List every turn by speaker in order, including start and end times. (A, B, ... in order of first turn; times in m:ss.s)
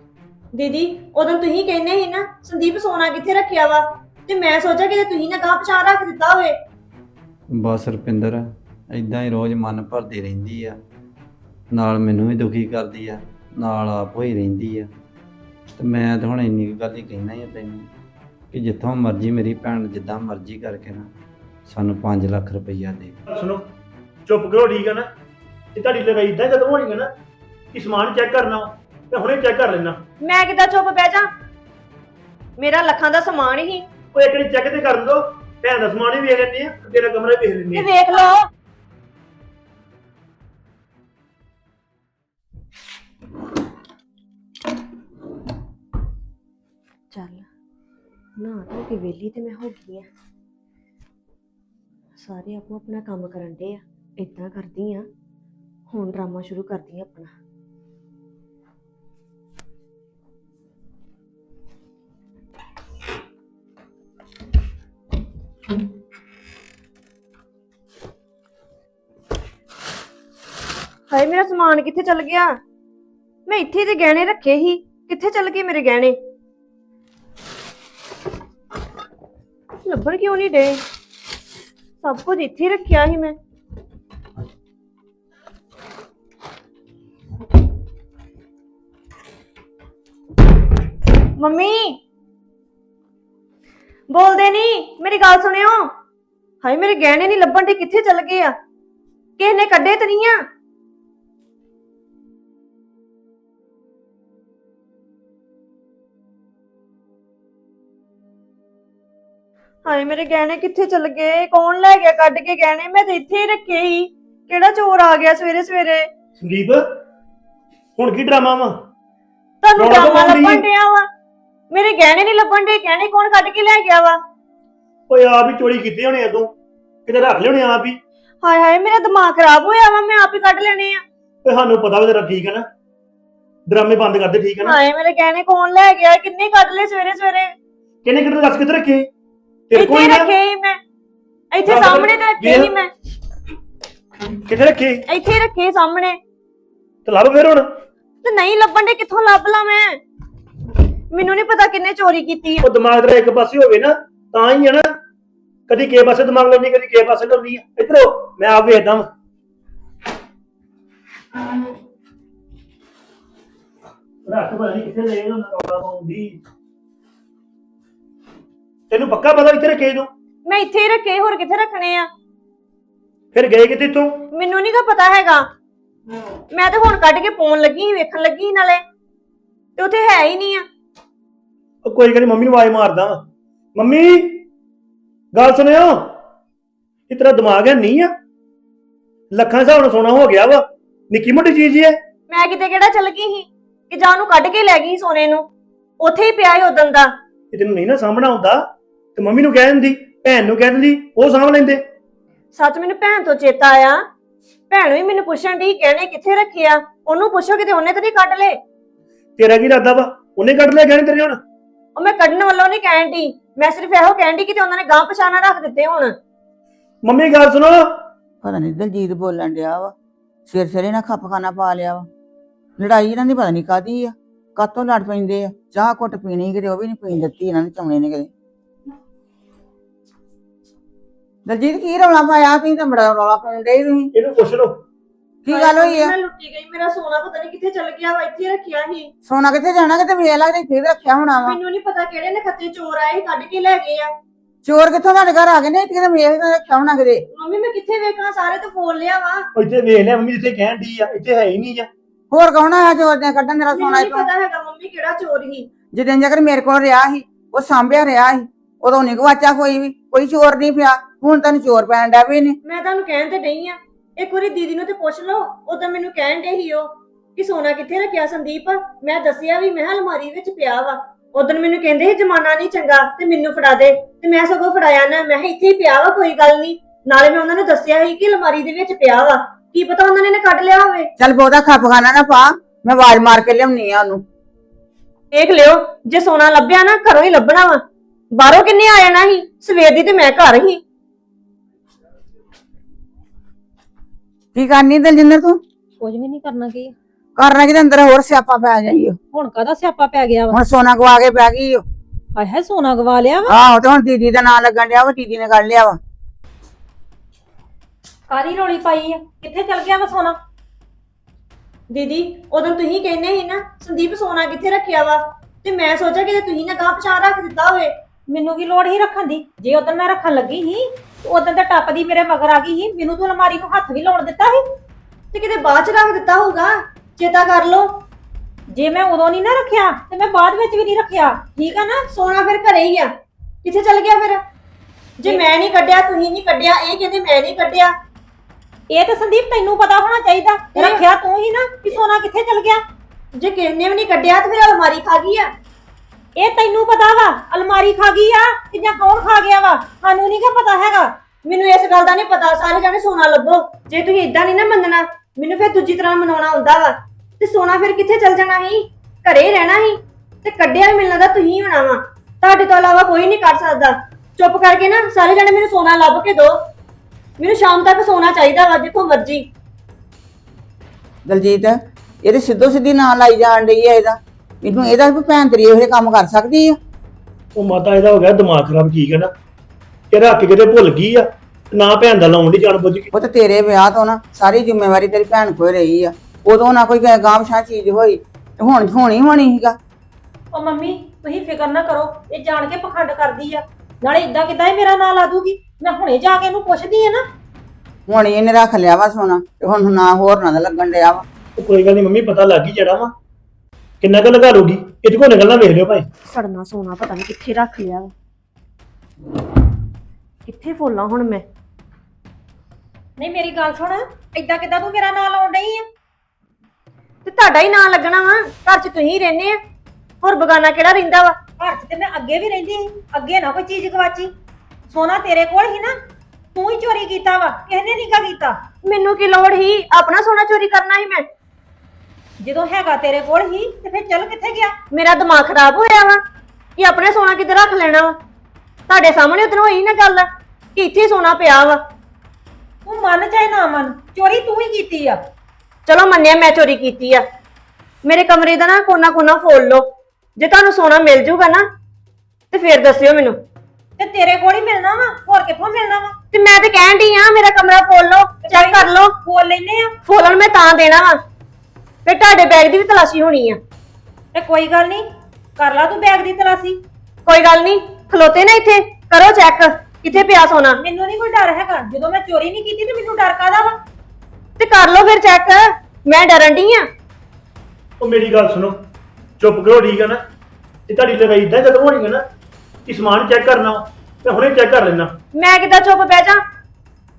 0:00.5-0:06.5 A
0:07.5-0:10.8 B
0:11.7-0:14.9 B
0:15.8-0:17.9 B
0:18.5-0:21.1 B
0:21.7-0:23.1 B
0:23.3-0:23.6 C
0:24.3-0:25.1 C
0:25.7-0:27.1 C
0:27.7-0:30.0 C
0:30.2-0:31.3 A
0:32.6-0:33.8 A
0:34.1-0:37.9 C
0:37.7-0:38.4 A
0:47.1-0:47.4 A
0:48.4-0:50.0 A
0:52.2-0:55.0 A
0:55.9-0:57.3 A
1:11.1-1:12.6 A
1:13.5-1:16.2 A
1:19.8-1:20.8 A
1:22.0-1:23.4 A
1:31.4-1:32.0 A
1:34.1-1:35.9 A
1:36.6-1:38.5 A
1:39.4-1:40.4 A
1:49.8-1:56.1 A
1:56.4-1:56.8 C
1:58.0-1:58.7 C
1:59.6-2:01.1 A
1:59.8-2:00.6 C
2:01.7-2:04.2 A
2:05.1-2:06.5 C
2:07.0-2:08.0 C
2:08.4-2:11.0 A
2:11.4-2:12.6 C
2:13.7-2:14.8 C
2:14.6-2:17.5 A
2:18.0-2:19.1 C
2:19.7-2:20.3 C
2:19.7-2:20.8 A
2:21.5-2:22.9 A
2:21.6-2:22.7 C
2:24.5-2:25.0 C
2:25.1-2:26.2 A
2:27.0-2:27.7 C
2:28.2-2:30.0 A
2:31.1-2:32.6 A
2:32.6-2:34.9 C
2:35.7-2:39.1 C
2:44.2-2:46.4 C
2:48.9-2:50.1 C
2:50.4-2:52.1 A
2:53.3-2:54.2 C
2:54.3-2:55.5 A
2:56.5-2:58.8 A
2:59.8-3:00.6 A
3:01.8-3:03.2 C
3:03.8-3:04.4 C
3:05.3-3:06.1 C
3:07.1-3:08.1 C
3:09.3-3:12.0 C
3:12.3-3:15.5 A
3:16.0-3:17.1 A
3:17.5-3:18.6 C
3:19.2-3:21.8 C
3:22.5-3:24.0 A
3:24.7-3:28.6 A
3:29.4-3:31.4 C
3:32.0-3:36.1 A
3:37.0-3:37.8 C
3:38.4-3:39.9 D
3:40.5-3:42.1 D
3:42.8-3:48.3 D
3:51.4-3:54.1 D
3:54.1-3:54.8 C
3:55.5-3:56.1 D
3:55.5-3:59.1 A
3:59.2-4:01.5 D
4:01.4-4:04.1 A
4:04.6-4:07.2 D
4:07.3-4:09.5 A
4:09.6-4:11.9 C
4:12.3-4:14.2 D
4:13.7-4:15.7 A
4:15.9-4:22.6 D
4:22.6-4:41.1 A
4:41.2-4:44.2 D
4:45.3-4:47.8 A
4:48.3-4:50.8 A
4:54.5-4:55.6 D
4:56.0-4:56.9 E
4:57.4-4:59.2 D
4:59.3-5:00.6 E
5:00.5-5:01.8 D
5:02.4-5:03.6 E
5:03.5-5:06.0 D
5:08.3-5:10.3 E
5:11.9-5:17.9 A
5:18.3-5:24.6 E
5:25.3-5:28.0 A
5:28.7-5:32.0 E
5:32.1-5:33.1 A
5:33.6-5:34.4 A
5:35.2-5:37.9 A
5:38.9-5:42.8 E
5:40.7-5:41.0 A
5:43.4-5:45.5 A
5:46.4-5:51.1 E
5:51.4-6:06.6 A
6:07.4-6:09.5 A
6:11.2-6:16.8 D
6:17.5-6:19.3 C
6:20.1-6:23.1 C
6:23.2-6:29.8 D
6:30.5-6:37.2 E
6:38.1-6:41.2 D
6:41.6-6:43.1 C
6:44.0-6:46.1 C
6:46.2-6:48.1 A
6:50.4-6:51.4 A
6:53.2-6:55.8 E
6:57.2-6:59.6 A
7:00.2-7:01.4 A
7:01.6-7:04.3 E
7:04.9-7:05.9 E
7:06.5-7:08.6 E
7:08.8-7:11.3 A
7:12.4-7:14.7 E
7:14.9-7:16.2 A
7:16.8-7:18.1 A
7:18.9-7:21.8 A
7:22.8-7:25.2 E
7:25.9-7:27.2 A
7:28.0-7:31.6 A
7:32.5-7:33.4 A
7:34.0-7:36.1 E
7:36.3-7:39.1 A
7:38.4-7:39.9 E
7:40.0-7:41.2 A
7:42.0-7:43.6 A
7:44.3-7:45.0 E
7:45.6-7:46.8 E
7:47.2-7:50.8 A
7:50.8-7:53.8 E
7:54.6-7:56.8 A
7:58.0-7:58.7 C
7:59.4-8:00.2 C
8:00.9-8:02.2 C
8:02.9-8:05.1 C
8:05.3-8:06.4 A